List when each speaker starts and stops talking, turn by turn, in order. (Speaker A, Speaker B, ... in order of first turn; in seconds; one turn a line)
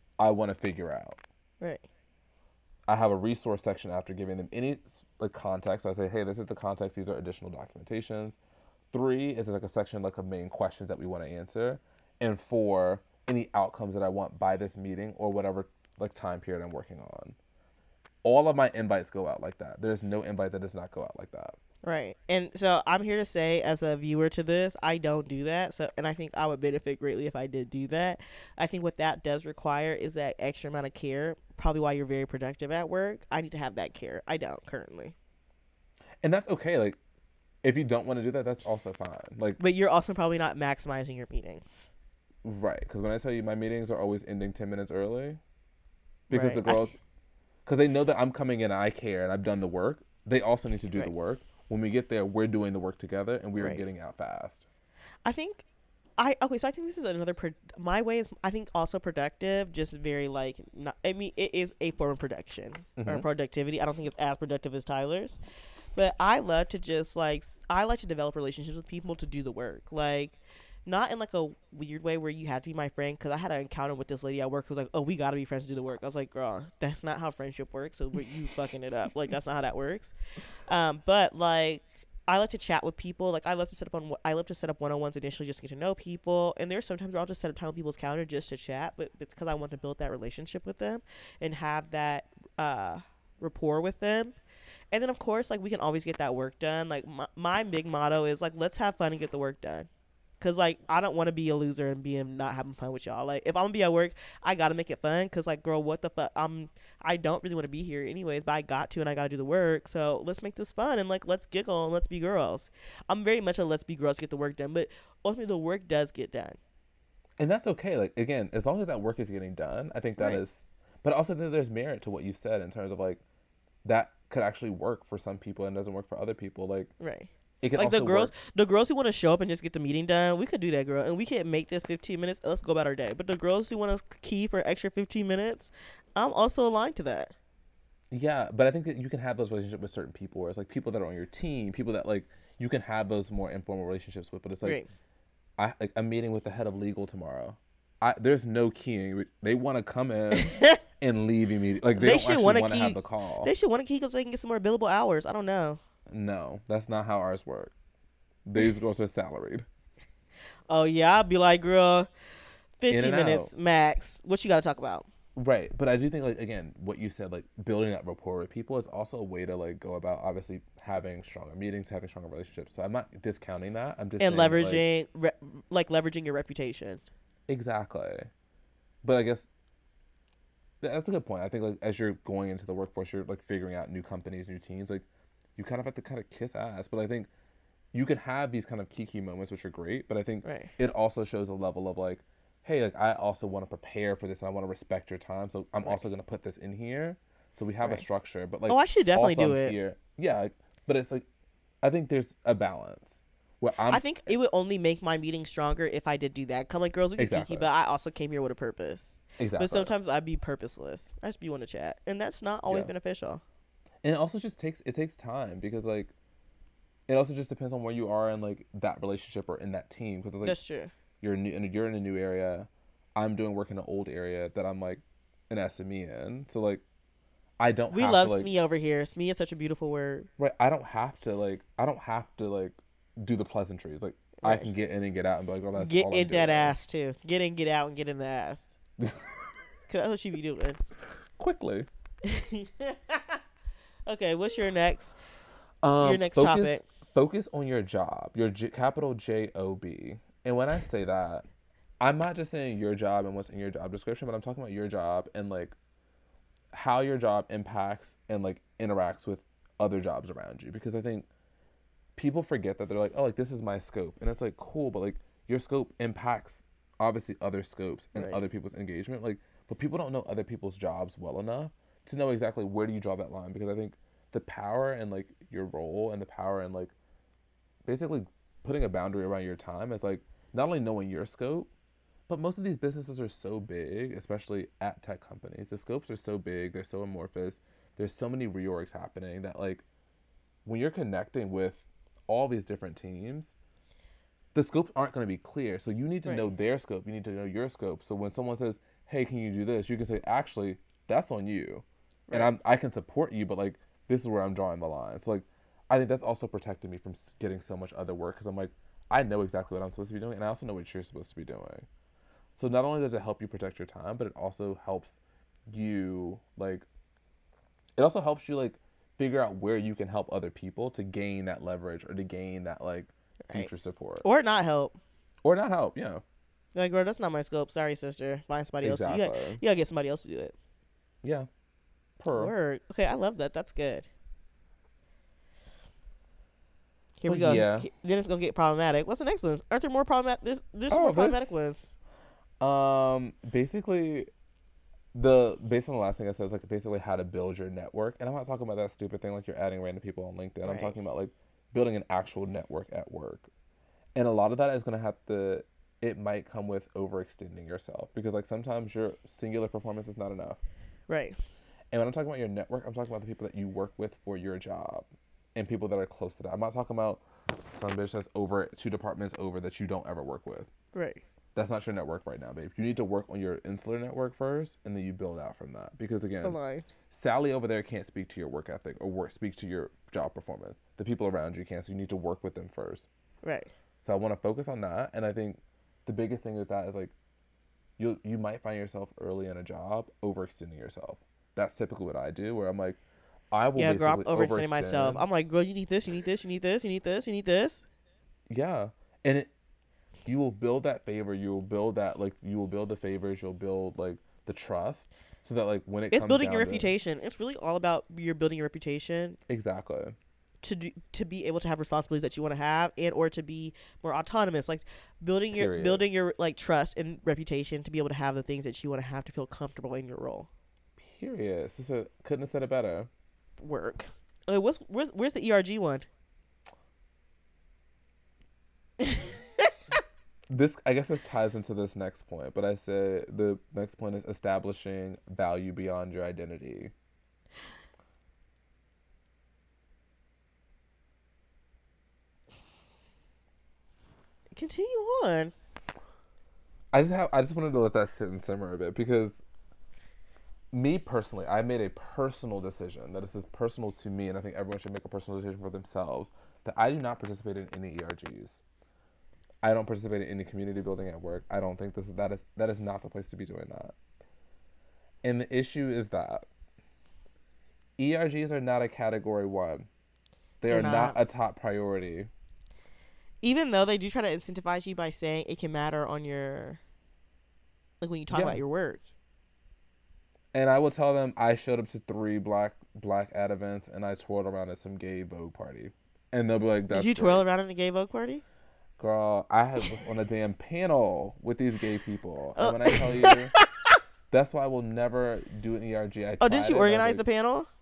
Speaker A: 0.2-1.2
Speaker A: 2.9-8.4
Speaker A: 8.9-17.4
Speaker A: 18.2-21.6
Speaker B: 21.8-35.1
Speaker A: 36.2-37.0
Speaker A: 37.6-39.6
Speaker B: 39.6-41.9
Speaker A: 42.4-45.4
Speaker A: 46.3-47.0
Speaker B: 46.3-46.9
Speaker A: 47.7-54.7
Speaker B: 53.6-53.9
Speaker B: 55.2-55.7
Speaker B: 56.2-65.4
Speaker A: 63.0-63.2
Speaker B: 66.0-80.1
Speaker B: 80.7-94.3
Speaker B: 94.9-99.9
Speaker B: 100.4-116.6
Speaker A: 117.4-123.2
Speaker A: 123.8-126.9
Speaker B: 127.0-137.3
Speaker A: 127.6-128.3
Speaker A: 138.1-144.8
Speaker A: 145.6-153.5
Speaker B: 150.3-150.8
Speaker B: 152.0-155.8
Speaker A: 156.1-157.7
Speaker A: 158.4-159.7
Speaker B: 160.7-162.1
Speaker B: 162.8-165.1
Speaker A: 162.9-163.5
Speaker A: 165.3-174.8
Speaker B: 174.2-177.1
Speaker A: 177.5-178.3
Speaker A: 179.0-179.5
Speaker A: 180.8-185.1
Speaker A: 185.6-187.3
Speaker A: 187.9-201.2
Speaker B: 190.4-190.7
Speaker B: 198.7-199.8
Speaker A: 201.8-204.3
Speaker B: 203.9-213.4
Speaker A: 207.2-207.7
Speaker A: 209.4-209.9
Speaker A: 214.0-216.1
Speaker A: 217.1-220.6
Speaker B: 220.4-220.9
Speaker A: 221.2-226.8
Speaker A: 227.6-228.5
Speaker B: 227.9-230.3
Speaker A: 230.4-236.8
Speaker B: 234.4-234.7
Speaker B: 235.7-238.8
Speaker A: 239.0-239.4
Speaker B: 239.9-240.8
Speaker A: 241.4-241.9
Speaker B: 242.2-243.4
Speaker B: 244.1-245.2
Speaker A: 245.8-251.4
Speaker B: 246.0-246.8
Speaker A: 252.0-255.8
Speaker A: 256.7-261.3
Speaker A: 262.2-276.9
Speaker B: 268.1-268.4
Speaker A: 277.9-281.7
Speaker A: 282.3-289.8
Speaker A: 290.6-293.5
Speaker A: 294.5-311.9
Speaker A: 312.6-315.2
Speaker A: 315.7-316.9
Speaker A: 318.0-324.2
Speaker B: 324.2-325.0
Speaker A: 325.4-326.2
Speaker B: 326.8-330.6
Speaker A: 328.8-329.6
Speaker A: 331.2-331.5
Speaker A: 332.2-332.5
Speaker B: 332.3-334.1
Speaker B: 337.2-341.9
Speaker A: 337.3-337.9
Speaker A: 340.9-341.6
Speaker A: 342.6-344.3
Speaker A: 345.1-353.5
Speaker B: 350.6-350.9
Speaker A: 354.1-360.6
Speaker B: 361.1-361.4
Speaker A: 361.9-370.7
Speaker B: 370.9-371.2
Speaker A: 371.6-376.6
Speaker B: 376.4-376.9
Speaker A: 377.1-383.1
Speaker B: 383.4-383.7
Speaker A: 384.0-387.1
Speaker A: 388.0-393.0
Speaker A: 393.5-395.2
Speaker B: 393.8-397.9
Speaker A: 398.5-399.5
Speaker A: 400.2-406.9
Speaker B: 406.1-409.4
Speaker A: 409.5-410.2
Speaker B: 410.6-420.5
Speaker A: 415.5-416.1
Speaker A: 421.0-423.1
Speaker B: 423.6-426.1
Speaker B: 429.0-429.7
Speaker A: 430.5-436.9
Speaker B: 444.6-445.5
Speaker A: 446.9-449.4
Speaker A: 450.7-458.6
Speaker A: 459.6-463.9
Speaker A: 465.2-466.5
Speaker A: 468.0-469.9
Speaker A: 470.6-472.3
Speaker B: 470.7-471.2
Speaker B: 473.4-476.8
Speaker B: 478.0-479.1
Speaker A: 478.3-478.6
Speaker A: 480.5-487.4
Speaker B: 486.9-488.4
Speaker A: 489.0-493.5
Speaker B: 492.6-494.0
Speaker A: 494.3-497.2
Speaker B: 496.4-497.7